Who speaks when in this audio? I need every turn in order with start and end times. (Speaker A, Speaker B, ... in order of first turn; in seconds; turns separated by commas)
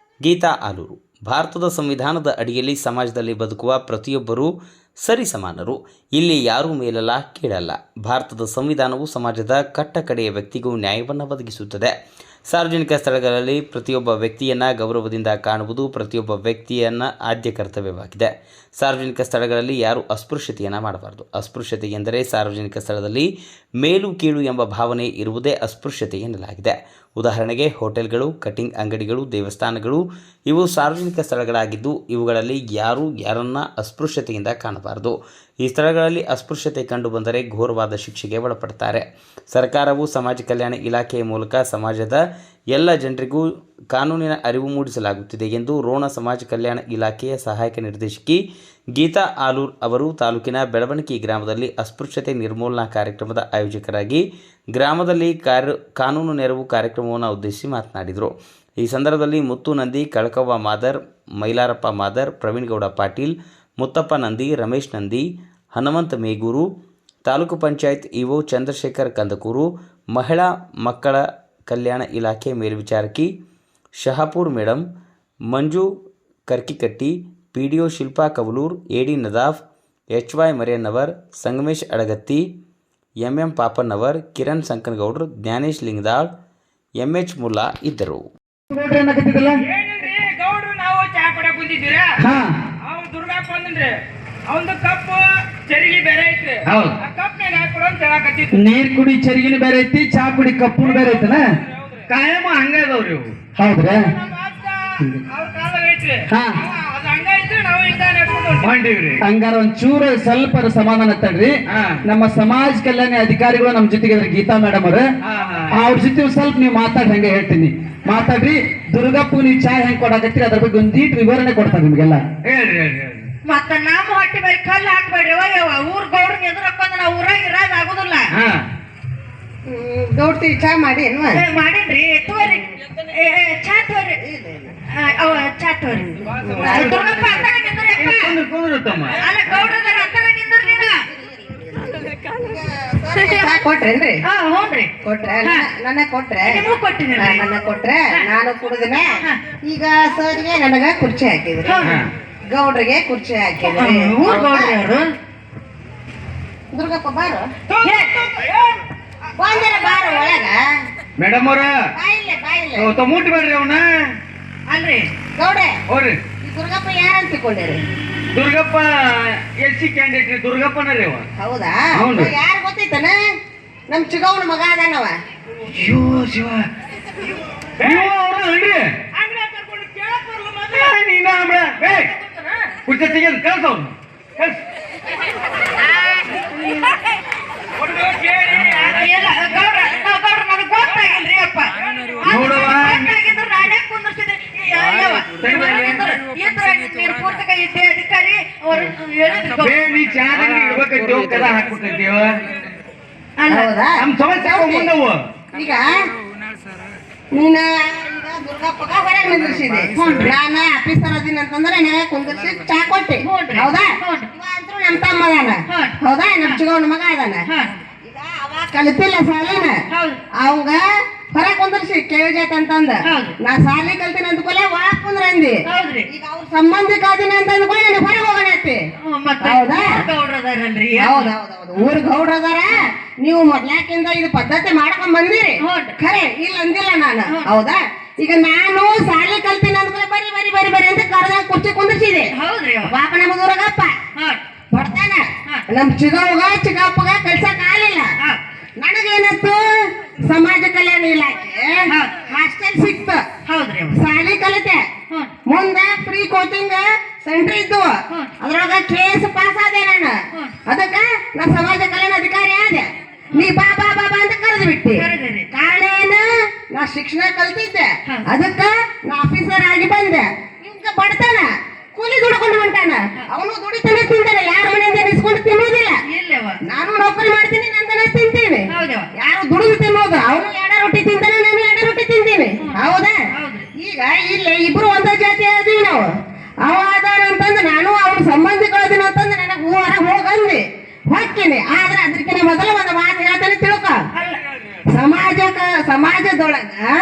Speaker A: 0.2-4.5, Speaker A: 5.0-11.9, Speaker A: 12.5-23.3, Speaker A: 23.8-42.2, Speaker A: 42.7-48.4, Speaker A: 49.0-66.7, Speaker A: 67.2-73.3, Speaker A: 74.0-74.9, Speaker A: 75.5-75.9, Speaker A: 76.5-82.5, Speaker A: 83.2-86.3, Speaker A: 87.0-88.3, Speaker B: 88.7-89.6, Speaker C: 89.6-92.2, Speaker B: 92.2-92.5, Speaker C: 92.8-94.0, Speaker C: 94.5-98.7, Speaker D: 96.7-97.0, Speaker B: 98.5-101.5, Speaker C: 100.8-102.0, Speaker D: 102.1-103.4, Speaker B: 103.6-104.1, Speaker C: 103.8-108.8, Speaker B: 106.3-106.6, Speaker D: 108.6-109.2, Speaker B: 109.2-115.1, Speaker D: 111.7-112.0, Speaker D: 115.2-115.8, Speaker B: 115.7-122.2, Speaker D: 122.4-123.3, Speaker E: 123.5-128.3, Speaker D: 128.3-128.7, Speaker F: 129.7-131.4, Speaker E: 131.3-134.2, Speaker F: 134.2-134.8, Speaker E: 134.9-138.4, Speaker F: 136.2-138.3, Speaker D: 136.5-137.4, Speaker D: 137.9-139.2, Speaker E: 139.2-141.0, Speaker F: 141.1-144.2, Speaker E: 144.3-144.9, Speaker F: 145.0-146.6, Speaker E: 146.4-147.4, Speaker F: 147.2-149.1, Speaker F: 149.7-151.8, Speaker E: 151.7-152.1, Speaker D: 151.8-152.1, Speaker F: 152.5-154.8, Speaker E: 153.6-155.1, Speaker F: 156.7-157.5, Speaker C: 157.7-158.8, Speaker E: 157.8-158.2, Speaker F: 159.4-160.6, Speaker D: 161.2-161.8, Speaker F: 162.0-162.9, Speaker D: 162.8-163.9, Speaker E: 164.7-165.1, Speaker F: 165.4-165.7, Speaker D: 165.9-166.2, Speaker F: 166.4-167.8, Speaker D: 168.3-171.3, Speaker F: 171.4-173.2, Speaker D: 171.9-172.3, Speaker F: 173.9-175.2, Speaker D: 175.7-176.7, Speaker D: 177.8-178.9, Speaker C: 177.8-178.1, Speaker C: 179.2-180.9, Speaker D: 180.7-182.1, Speaker C: 181.9-182.7, Speaker D: 182.9-184.6, Speaker E: 186.5-186.9, Speaker C: 187.8-189.6, Speaker E: 188.7-199.8, Speaker D: 192.2-193.1, Speaker D: 195.4-196.2, Speaker D: 199.6-202.4, Speaker E: 203.4-203.7, Speaker F: 203.5-204.9, Speaker D: 204.0-205.2, Speaker F: 205.5-205.9, Speaker F: 207.3-217.4, Speaker E: 213.2-214.3, Speaker E: 215.7-216.6, Speaker E: 217.5-217.7, Speaker F: 218.1-219.8, Speaker E: 219.9-220.2, Speaker F: 220.4-220.8, Speaker F: 221.3-228.8, Speaker E: 223.1-223.3, Speaker E: 225.7-226.1, Speaker E: 229.1-231.8, Speaker F: 229.4-229.9, Speaker F: 231.0-242.3, Speaker E: 235.6-235.9, Speaker E: 237.3-237.5, Speaker E: 242.3-242.9, Speaker F: 242.8-244.0, Speaker E: 244.2-244.4, Speaker F: 244.7-248.1, Speaker F: 248.8-253.2, Speaker E: 251.9-252.2, Speaker E: 253.5-254.0, Speaker F: 253.9-254.8, Speaker F: 255.5-276.0, Speaker E: 264.9-265.5, Speaker E: 276.1-276.6, Speaker F: 276.6-283.1, Speaker E: 278.7-279.1, Speaker E: 282.6-283.7, Speaker F: 283.8-286.0, Speaker F: 286.6-294.0, Speaker E: 294.1-294.4, Speaker F: 294.9-296.8